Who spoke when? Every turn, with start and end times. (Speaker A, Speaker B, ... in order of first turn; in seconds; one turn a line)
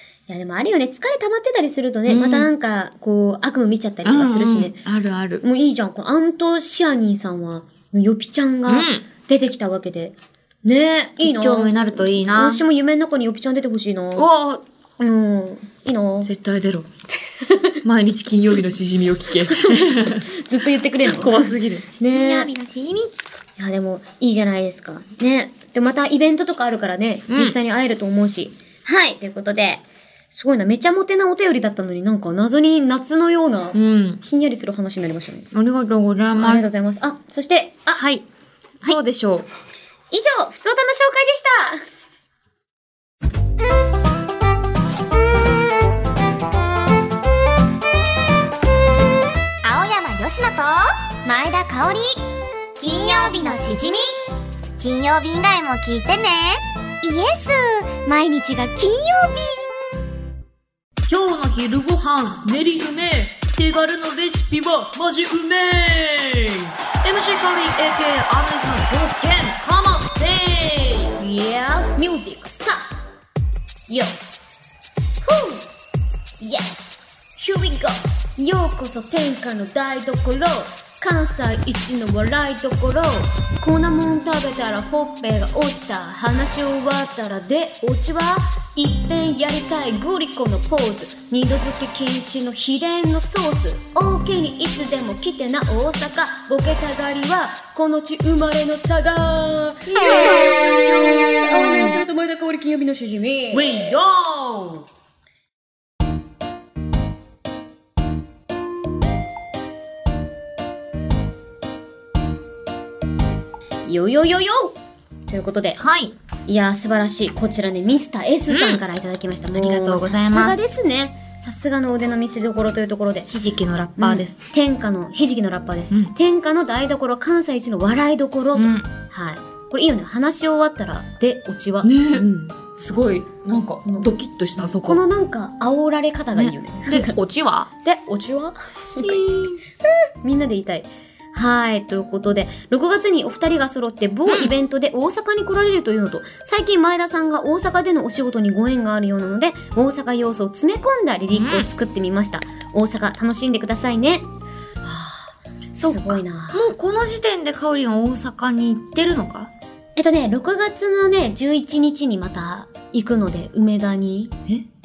Speaker A: 0.3-4.8
Speaker B: 2.0-2.5
Speaker B: 4.0-5.4
Speaker A: 5.4-14.3
Speaker B: 8.7-9.0
Speaker B: 11.2-12.6
Speaker B: 14.2-14.6
Speaker A: 15.0-16.3
Speaker B: 16.2-16.9
Speaker A: 17.3-17.8
Speaker B: 17.8-20.3
Speaker A: 19.5-22.5
Speaker B: 21.1-21.9
Speaker C: 22.1-23.1
Speaker A: 23.6-35.5
Speaker B: 27.3-27.6
Speaker B: 33.7-34.2
Speaker B: 35.5-36.6
Speaker A: 36.3-38.0
Speaker B: 37.9-38.2
Speaker B: 38.8-39.5
Speaker A: 40.1-41.8
Speaker C: 49.6-52.2
Speaker C: 52.8-54.1
Speaker A: 53.0-53.6
Speaker C: 54.8-59.7
Speaker B: 61.1-71.2
Speaker A: 71.2-73.0
Speaker A: 73.9-74.2
Speaker A: 75.2-75.7
Speaker A: 76.4-76.8
Speaker A: 77.4-104.0
Speaker B: 100.0-100.3
Speaker B: 101.5-101.9
Speaker B: 103.5-104.8
Speaker A: 113.8-114.8
Speaker A: 115.3-115.8
Speaker B: 115.8-116.2
Speaker A: 116.5-123.3
Speaker B: 118.5-118.8
Speaker B: 119.5-120.6
Speaker B: 123.3-124.4
Speaker A: 124.0-132.6
Speaker B: 128.5-128.9
Speaker B: 131.8-135.0
Speaker A: 133.8-137.2
Speaker B: 136.3-137.7
Speaker A: 137.8-139.3
Speaker B: 139.0-139.6
Speaker A: 139.8-154.2
Speaker B: 144.2-144.5
Speaker B: 151.3-151.7
Speaker A: 154.8-156.7
Speaker B: 155.8-159.5
Speaker A: 159.9-164.4